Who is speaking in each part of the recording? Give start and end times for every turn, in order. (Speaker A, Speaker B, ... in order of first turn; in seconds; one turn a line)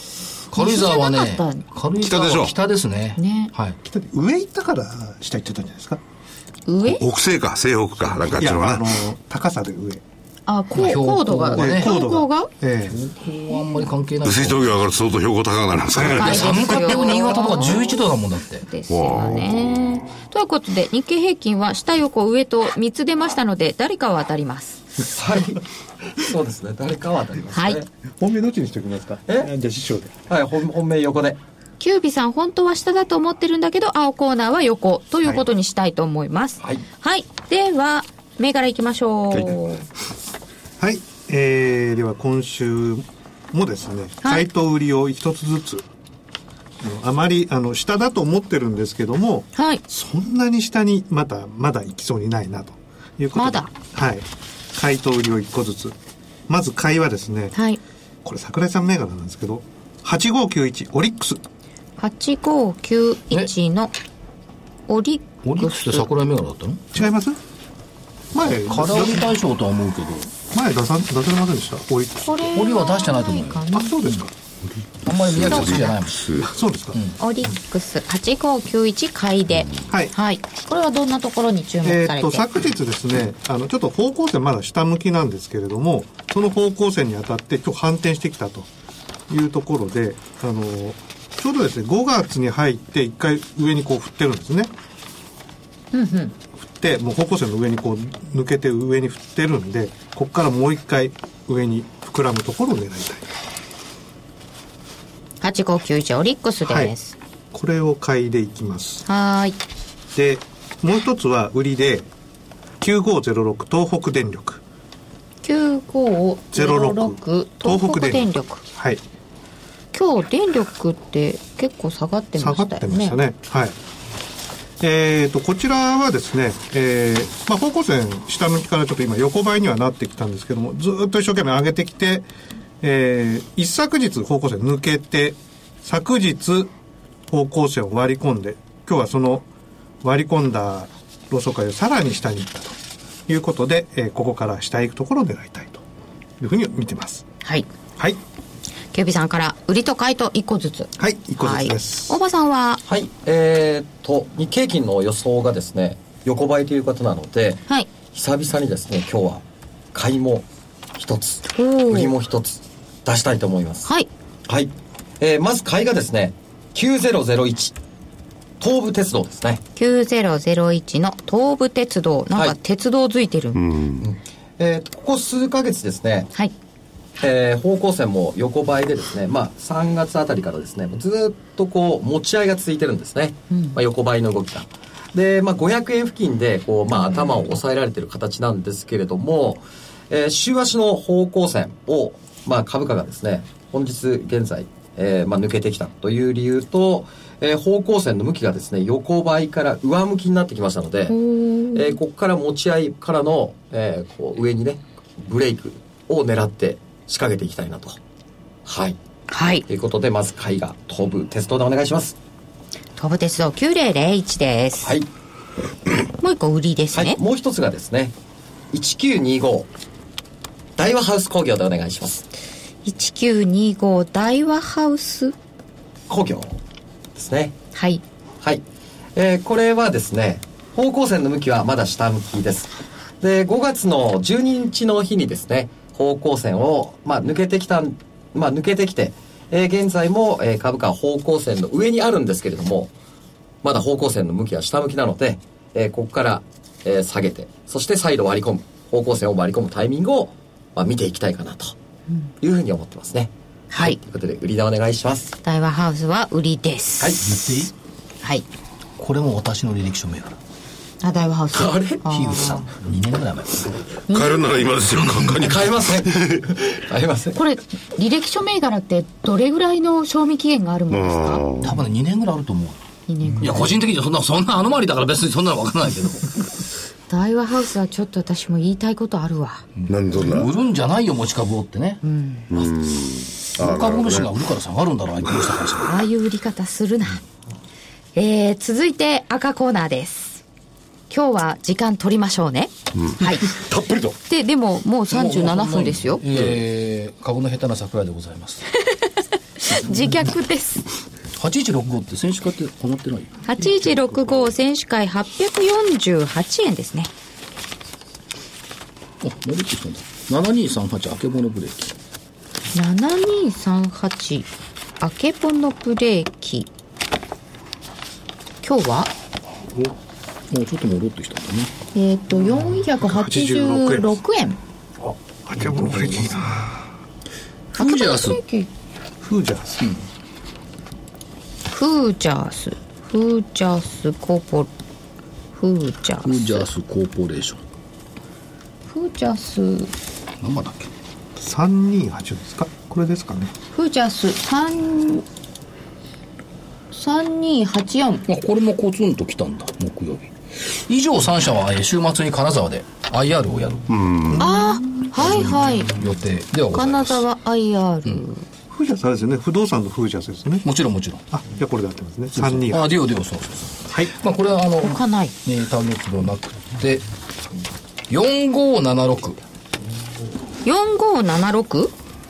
Speaker A: 0.5-1.6
Speaker B: 0.5-3.8
Speaker C: 2.0-2.5
Speaker A: 3.2-3.5
Speaker D: 3.8-6.0
Speaker A: 6.7-7.0
Speaker C: 6.8-8.9
Speaker D: 8.3-10.0
Speaker A: 10.5-12.5
Speaker B: 10.7-11.9
Speaker D: 11.6-13.0
Speaker B: 12.9-14.8
Speaker C: 14.2-16.8
Speaker B: 16.0-18.7
Speaker A: 16.1-18.1
Speaker A: 18.6-24.8
Speaker C: 18.9-19.4
Speaker D: 19.2-19.5
Speaker E: 25.1-25.6
Speaker E: 26.2-27.9
Speaker A: 27.6-27.8
Speaker D: 28.2-30.1
Speaker E: 30.3-31.4
Speaker A: 31.8-39.8
Speaker D: 40.8-45.9
Speaker A: 44.2-44.5
Speaker D: 46.8-56.0
Speaker A: 49.5-49.8
Speaker A: 53.4-53.7
Speaker D: 56.5-57.6
Speaker A: 57.5-57.8
Speaker D: 58.2-61.4
Speaker A: 62.0-63.9
Speaker A: 64.9-66.1
Speaker B: 65.4-66.9
Speaker D: 66.9-67.4
Speaker D: 68.3-69.3
Speaker B: 68.4-70.3
Speaker D: 70.5-72.7
Speaker A: 72.2-74.0
Speaker B: 72.5-73.7
Speaker D: 73.7-74.3
Speaker B: 75.0-76.4
Speaker C: 75.2-76.5
Speaker A: 75.4-76.0
Speaker D: 76.5-77.0
Speaker A: 77.2-82.5
Speaker D: 79.9-80.1
Speaker D: 81.8-88.7
Speaker D: 89.3-94.7
Speaker A: 95.9-96.3
Speaker D: 96.6-103.3
Speaker A: 105.4-107.2
Speaker D: 106.7-106.9
Speaker D: 107.5-109.0
Speaker A: 109.1-109.6
Speaker D: 110.1-112.1
Speaker D: 112.8-114.6
Speaker A: 115.4-118.6
Speaker D: 116.5-119.0
Speaker A: 119.9-123.2
Speaker D: 122.4-123.8
Speaker D: 124.8-132.3
Speaker D: 132.8-136.7
Speaker D: 137.3-139.5
Speaker D: 140.0-142.8
Speaker D: 143.3-145.8
Speaker D: 146.4-147.2
Speaker A: 148.9-152.8
Speaker D: 151.0-152.2
Speaker E: 152.9-163.9
Speaker A: 161.5-162.2
Speaker E: 164.5-167.8
Speaker E: 168.6-169.6
Speaker A: 169.8-173.6
Speaker C: 173.6-174.1
Speaker E: 174.0-176.3
Speaker E: 177.2-201.2
Speaker A: 183.5-183.8
Speaker A: 201.1-202.0
Speaker E: 201.7-208.0
Speaker E: 208.7-209.0
Speaker A: 209.3-209.7
Speaker E: 209.7-212.2
Speaker A: 213.0-214.9
Speaker E: 214.8-215.1
Speaker A: 216.2-217.2
Speaker E: 216.9-218.2
Speaker E: 218.7-219.7
Speaker E: 220.8-222.2
Speaker A: 222.8-225.3
Speaker E: 226.1-226.6
Speaker E: 227.2-227.6
Speaker A: 227.7-228.0
Speaker E: 229.2-242.9
Speaker E: 243.6-251.7
Speaker E: 252.4-255.3
Speaker A: 253.7-254.0
Speaker A: 255.4-257.2
Speaker E: 257.0-257.3
Speaker B: 257.2-257.7
Speaker B: 259.0-260.4
Speaker A: 261.0-262.6
Speaker E: 261.5-262.0
Speaker B: 262.0-263.8
Speaker A: 264.1-264.6
Speaker C: 264.1-266.5
Speaker B: 265.0-265.4
Speaker E: 265.3-267.4
Speaker A: 267.3-271.4
Speaker C: 270.9-271.8
Speaker B: 271.6-272.8
Speaker A: 273.1-273.6
Speaker B: 273.4-276.3
Speaker E: 273.4-273.7
Speaker A: 277.1-279.6
Speaker B: 279.8-282.0
Speaker C: 279.9-280.5
Speaker A: 282.0-282.5
Speaker C: 282.5-284.3
Speaker B: 283.6-285.9
Speaker A: 285.8-287.2
Speaker A: 288.1-290.4
Speaker A: 291.1-293.5
Speaker C: 293.0-294.2
Speaker A: 294.3-296.2
Speaker B: 295.1-298.6
Speaker A: 298.8-300.9
Speaker B: 301.4-304.0
Speaker A: 303.5-307.1
Speaker B: 309.2-311.9
Speaker A: 312.7-314.5
Speaker A: 315.0-316.7
Speaker A: 318.6-319.1
Speaker B: 320.5-321.7
Speaker A: 321.9-324.6
Speaker D: 323.0-324.2
Speaker D: 325.0-326.8
Speaker B: 325.6-326.4
Speaker B: 327.7-328.4
Speaker A: 327.7-328.7
Speaker D: 329.2-329.9
Speaker A: 331.7-334.7
Speaker A: 335.6-336.7
Speaker B: 336.2-337.6
Speaker A: 338.9-339.9
Speaker B: 340.4-340.9
Speaker D: 341.4-343.5
Speaker A: 343.7-345.2
Speaker A: 346.9-348.3
Speaker B: 348.3-353.9
Speaker C: 353.9-354.4
Speaker D: 354.3-354.8
Speaker A: 354.4-355.9
Speaker B: 355.2-357.2
Speaker A: 356.7-358.4
Speaker D: 358.7-360.7
Speaker B: 360.6-361.2
Speaker D: 361.3-362.9
Speaker B: 362.3-367.1
Speaker A: 364.8-365.3
Speaker B: 368.1-369.4
Speaker A: 370.6-371.9